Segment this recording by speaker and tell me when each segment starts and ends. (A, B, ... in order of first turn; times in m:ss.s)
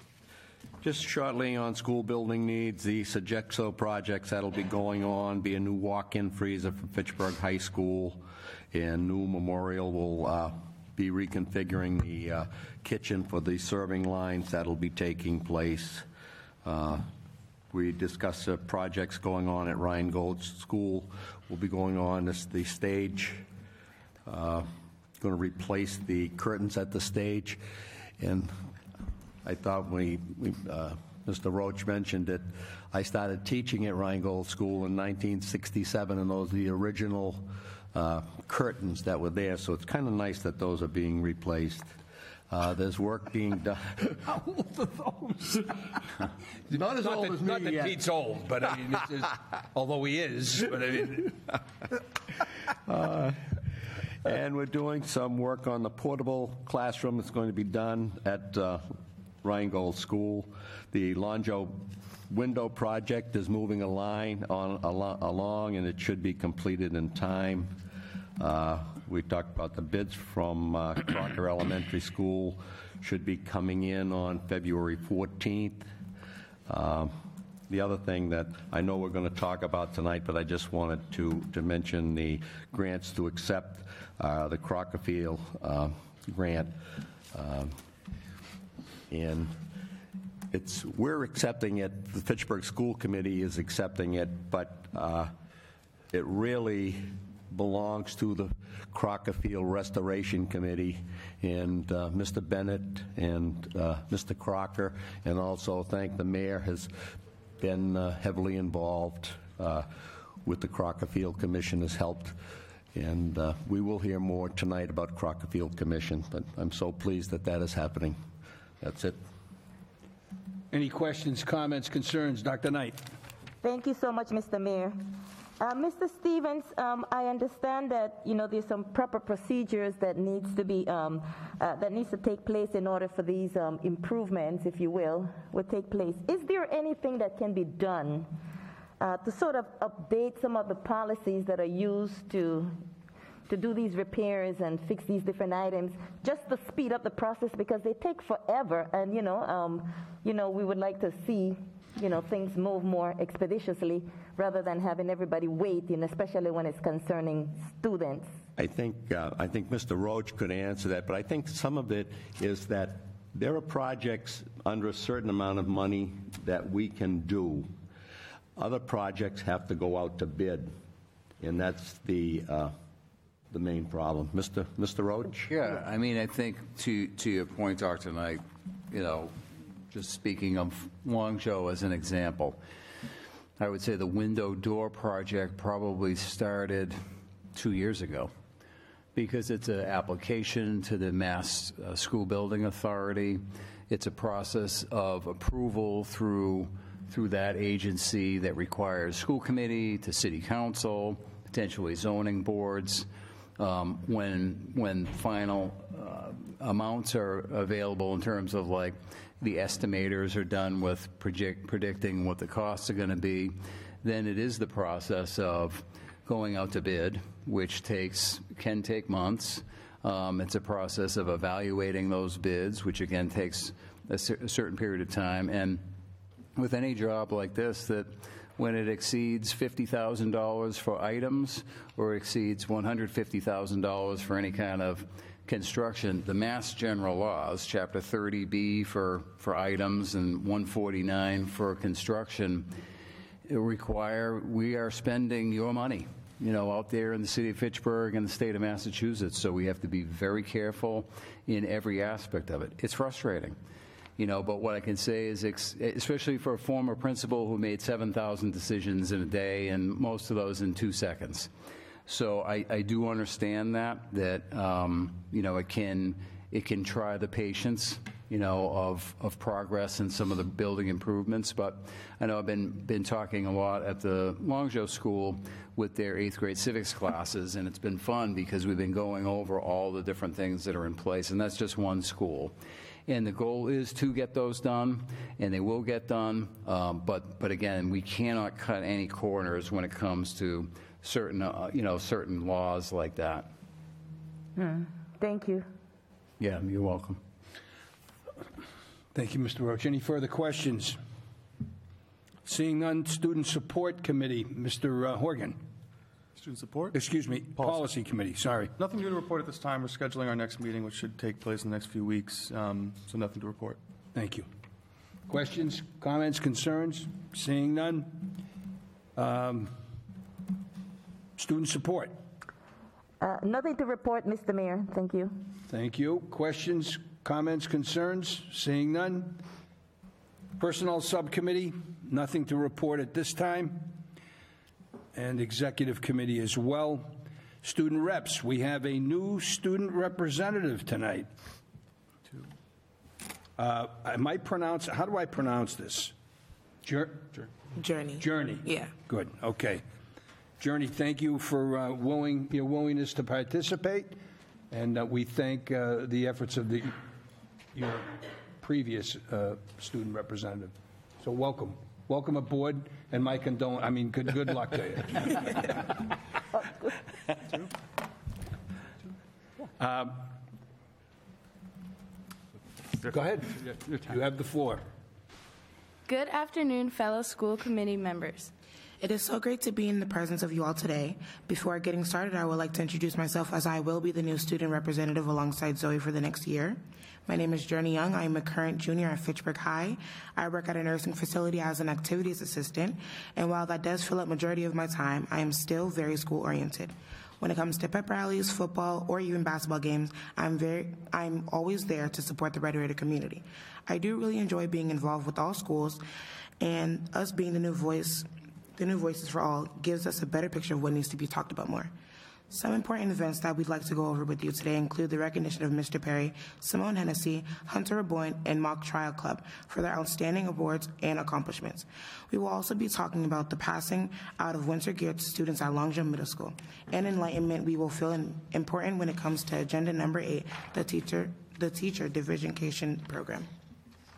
0:00.8-0:16.0 A
0:16.6-0:17.1 A
0:17.7-0:23.4 A
0:24.2-0:24.7 A
0:25.2-0:27.6 A
0:28.2-0:28.5 A
0:29.4-0:41.9 A
0:42.5-0:44.1 A
0:44.5-0:45.3 B
0:46.7-0:51.4 B
0:46.7-0:48.0 A
0:52.9-0:53.4 A
0:54.2-0:58.8 A
0:59.4-1:07.7 A
1:08.4-1:15.9 A
1:16.7-1:17.2 A
1:17.7-1:26.8 A
1:27.3-1:27.7 A
1:29.1-1:29.5 A
1:30.5-1:35.3 A
1:36.1-1:46.9 A
1:47.6-1:49.9 A
1:50.4-1:52.4 A
1:52.9-1:58.2 A
1:58.8-1:59.2 A
2:00.7-2:03.0 B
2:03.6-2:18.3 C
2:19.0-2:22.8 C
2:23.5-2:38.3 C
2:38.6-2:47.7 A
2:48.6-2:50.7 A
2:51.4-2:52.7 A
2:53.5-2:55.5 A
2:55.5-3:02.6 D
3:03.6-3:07.0 D
3:07.5-3:08.3 D
3:09.1-3:23.1 D
3:23.6-3:45.8 D
3:46.6-4:02.7 D
4:03.5-4:13.6 D
4:14.2-4:21.5 D
4:22.1-4:42.5 D
4:43.1-4:53.5 D
4:54.6-4:55.7 C
4:56.4-4:57.2 D
4:59.1-5:01.0 B
5:02.4-5:05.6 B
5:06.4-5:06.9 E
5:06.9-5:08.7 B
5:07.6-5:07.8 E
5:08.8-5:13.8 E
5:14.1-5:14.5 B
5:15.3-5:18.4 B
5:19.2-5:19.7 B
5:21.4-5:22.1 B
5:23.2-5:25.4 C
5:25.7-5:29.4 B
5:30.6-5:33.9 B
5:35.1-5:41.3 B
5:43.6-5:46.1 B
5:46.8-5:47.4 B
5:47.7-5:48.9 F
5:48.2-5:49.8 B
5:50.6-5:54.1 B
5:54.7-5:57.0 B
5:57.7-6:05.8 B
6:09.8-6:10.1 B
6:13.0-6:14.8 B
6:16.1-6:18.5 G
6:19.0-6:46.0 F
6:46.6-6:51.9 F
6:52.5-7:13.5 F